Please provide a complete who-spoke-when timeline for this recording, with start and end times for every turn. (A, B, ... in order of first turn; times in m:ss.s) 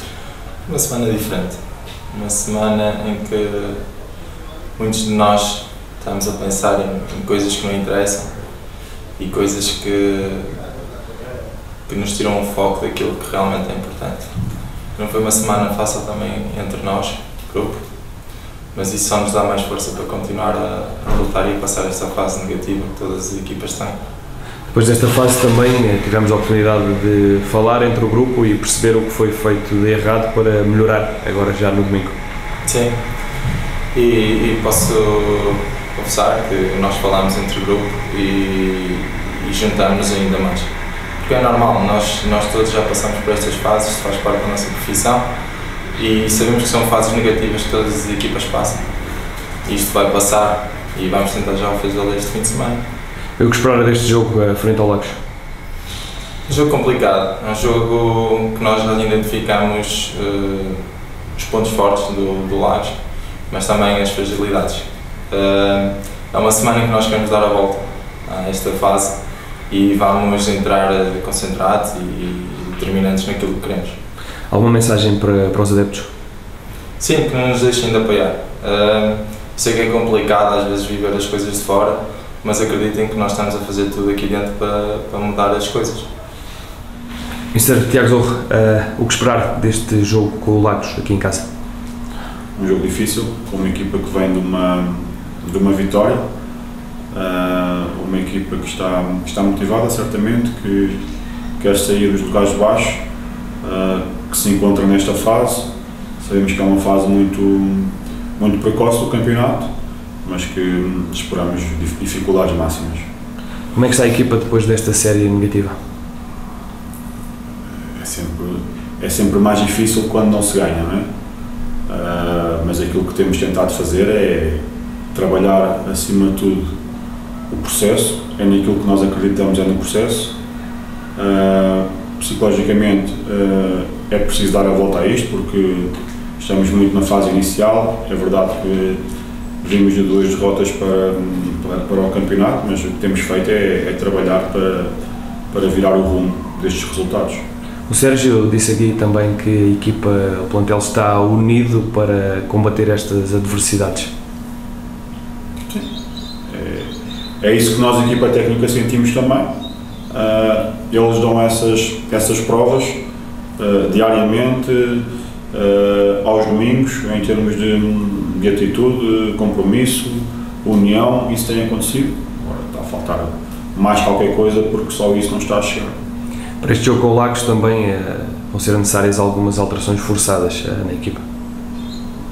0:00.7-0:01.6 A
0:02.1-0:03.8 A
0:04.8-0:08.3 A
0:09.2-0:10.6 A
0:11.9-0:14.4 A
0:15.0-0:17.8 A
0:18.7-0:24.0 A
0:24.7-0:32.2 B
0:32.6-0:33.0 A
0:33.9-0:40.7 A
0:41.2-0:45.3 A
0:46.0-0:48.9 A
0:49.6-0:52.8 A
0:53.4-0:55.2 B
0:56.5-1:00.8 A
1:01.4-1:03.0 A
1:03.5-1:09.2 A
1:09.7-1:14.0 A
1:14.5-1:16.1 B
1:17.0-1:26.1 A
1:27.5-1:31.5 B
1:32.6-1:36.2 C
1:37.1-1:41.0 C
1:41.6-1:43.0 C
1:43.6-1:45.7 C
1:46.2-1:49.7 C
1:50.2-1:53.0 C
1:53.7-1:55.8 B
1:58.0-2:01.0 C
2:01.9-2:04.6 C
2:05.1-2:06.7 C
2:07.5-2:10.4 C
2:11.2-2:19.0 C
2:19.6-2:24.9 C
2:25.5-2:27.4 C
2:27.9-2:34.1 B
2:36.5-2:36.9 C
2:37.4-2:39.5 C
2:40.1-2:43.0 C
2:43.6-2:55.9 C
2:56.6-3:01.2 B